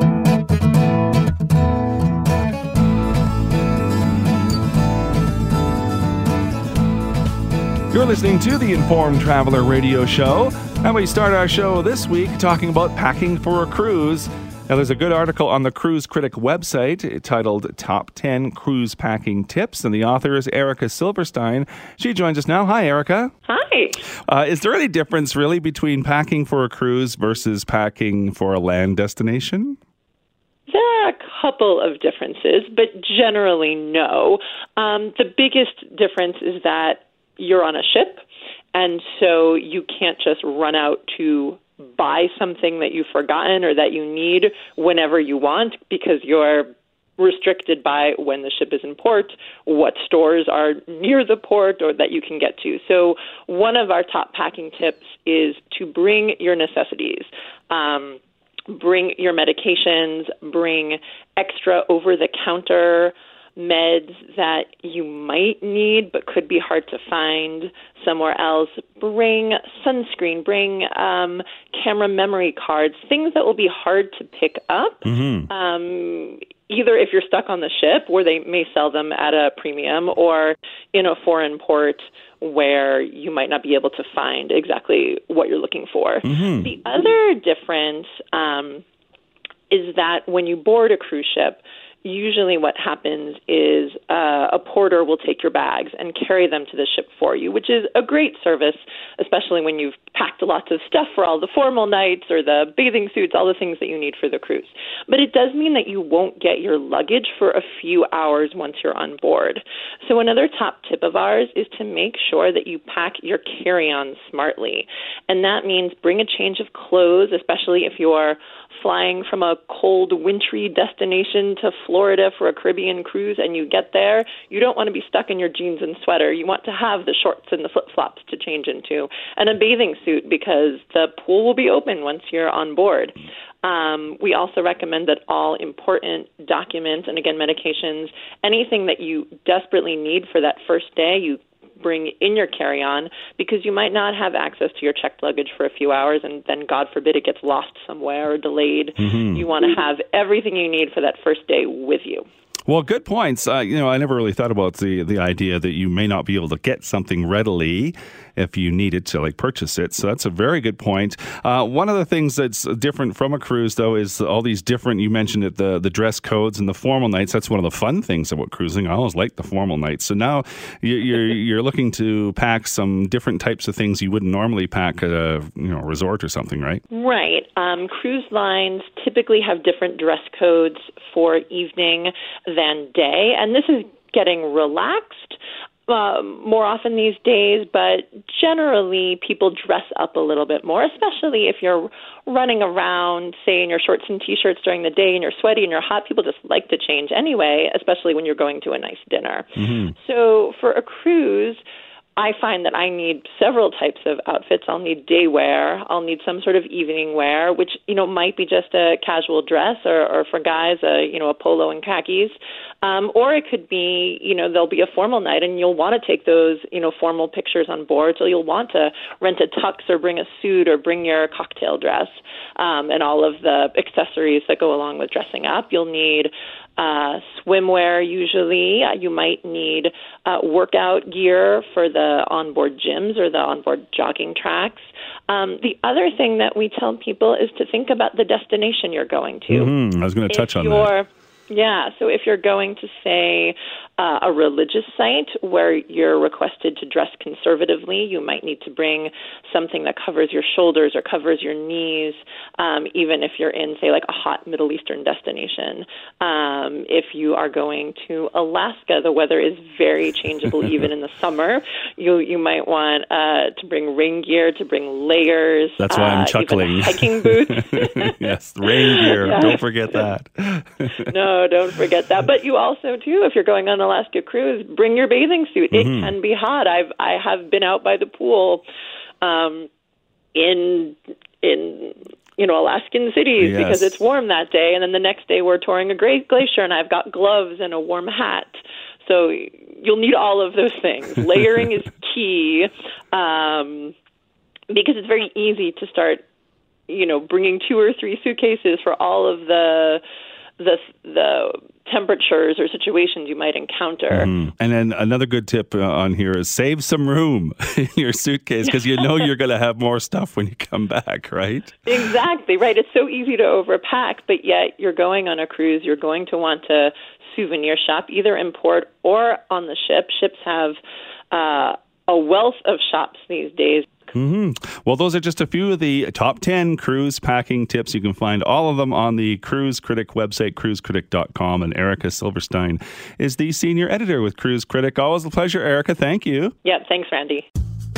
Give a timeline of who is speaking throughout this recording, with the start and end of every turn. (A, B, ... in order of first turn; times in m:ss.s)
0:07.9-0:23.3 A
0:23.5-0:24.0 B
0:24.2-0:29.8 A
0:30.7-0:38.2 B
0:38.7-1:28.8 B
1:15.0-1:15.5 A
1:26.2-1:26.7 A
1:29.7-2:32.3 B
2:29.0-2:29.4 A
2:32.7-2:56.8 A
2:56.9-3:21.6 B
3:19.6-3:19.9 A
3:22.2-3:59.7 B
3:59.5-4:00.9 A
4:00.3-4:28.2 B
4:25.8-4:31.1 A
4:29.0-4:30.1 B
4:31.1-4:38.6 B
4:35.7-4:36.1 A
4:39.2-4:39.7 B
4:40.3-4:48.5 B
4:43.4-4:43.9 A
4:49.0-4:53.9 B
4:54.7-4:56.2 B
4:56.9-5:00.0 B
5:00.6-5:04.3 B
5:04.1-5:12.0 A
5:08.7-5:09.1 B
5:11.9-5:20.8 B
5:21.3-5:23.9 B
5:24.1-5:36.5 A
5:36.6-5:37.5 B